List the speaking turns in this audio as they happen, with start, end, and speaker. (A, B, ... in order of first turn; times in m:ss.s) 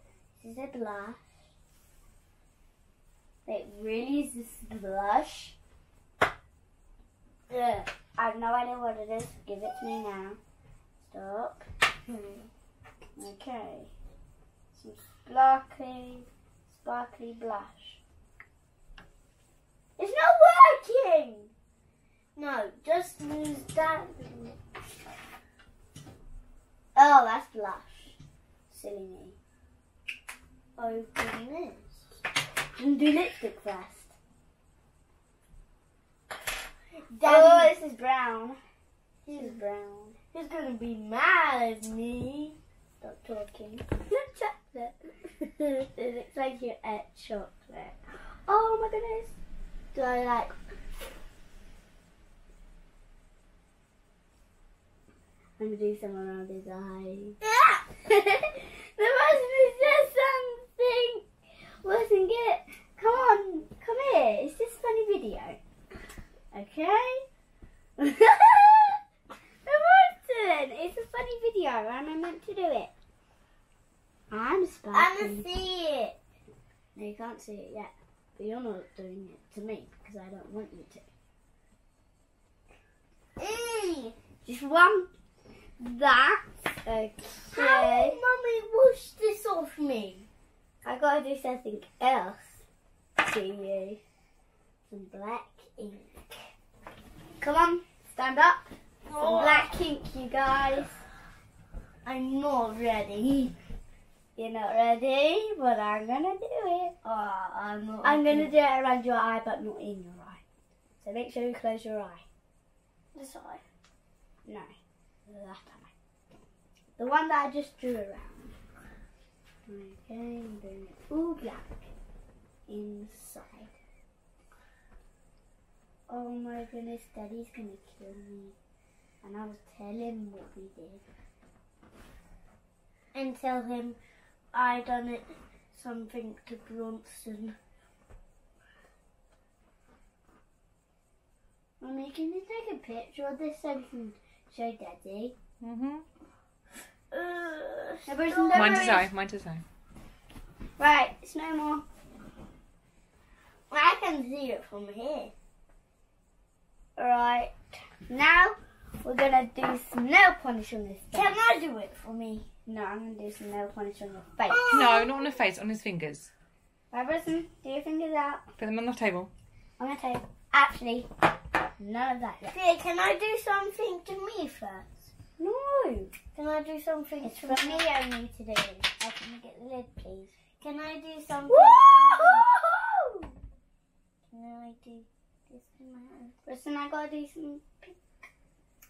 0:00.4-0:01.2 A
0:03.5-0:05.6 A
0:07.5-0:07.9 B
0:08.2-0:10.4 A
0:11.0-0:11.7 A
0:12.1-0:12.5 B
0:13.2-0:13.9 A
0:14.8-0:18.0 A
0:20.0-0:21.5 A
0:22.4-0:24.6 B
0:27.0-0:28.2 A
0:28.7-0:29.4 A
0:30.8-0:32.1 B
0:32.8-0:34.1 A
0:37.1-0:37.8 B
0:37.2-0:38.6 A
0:39.3-0:39.6 B
0:39.3-0:40.2 A
0:40.3-0:42.6 B
0:43.0-0:45.1 A
0:45.6-0:45.9 B
0:45.9-0:47.5 A
0:47.4-0:47.9 B
0:48.5-0:49.4 A
0:49.9-0:50.6 A
0:55.6-0:57.4 A
0:57.4-0:57.8 B
0:58.0-1:01.2 A
1:01.8-1:05.6 A
1:06.5-1:07.2 B
1:08.0-1:09.0 A
1:09.7-1:12.9 A
1:14.3-1:15.5 A
1:14.9-1:16.2 B
1:17.0-1:21.1 A
1:23.4-1:24.1 B
1:24.4-1:25.1 A
1:25.8-1:28.2 A
1:27.5-1:30.3 B
1:30.8-1:32.6 A
1:33.2-1:34.0 A
1:34.9-1:36.2 A
1:37.4-1:41.0 A
1:39.0-1:39.7 B
1:42.0-1:43.6 B
1:44.4-1:47.0 A
1:47.0-1:48.5 B
1:48.0-1:50.4 A
1:51.0-1:52.2 A
1:53.2-1:53.6 B
1:54.5-1:54.7 A
1:55.3-1:55.9 A
1:57.0-1:58.5 A
1:59.7-2:01.7 A
2:02.7-2:03.7 A
2:06.1-2:08.6 A
2:09.2-2:11.0 A
2:13.1-2:14.0 B
2:14.5-2:17.6 B
2:21.8-2:25.4 A
2:25.6-2:26.0 C
2:27.1-2:28.9 B
2:28.1-2:29.1 A
2:28.5-2:29.6 C
2:30.8-2:31.8 A
2:33.7-2:35.3 B
2:37.0-2:37.5 A
2:38.1-2:41.4 A
2:41.1-2:42.5 B
2:42.7-2:44.6 A
2:44.5-2:45.1 B
2:44.7-2:46.3 C
2:46.9-2:48.4 A
2:48.6-2:49.3 C
2:49.8-2:51.1 A
2:51.8-2:52.6 A
2:52.5-2:54.9 B
2:55.4-2:56.1 A
2:56.3-2:57.8 B
2:57.2-3:00.3 A
3:00.6-3:02.5 B
3:01.5-3:03.3 A
3:04.3-3:06.4 B
3:06.4-3:08.1 A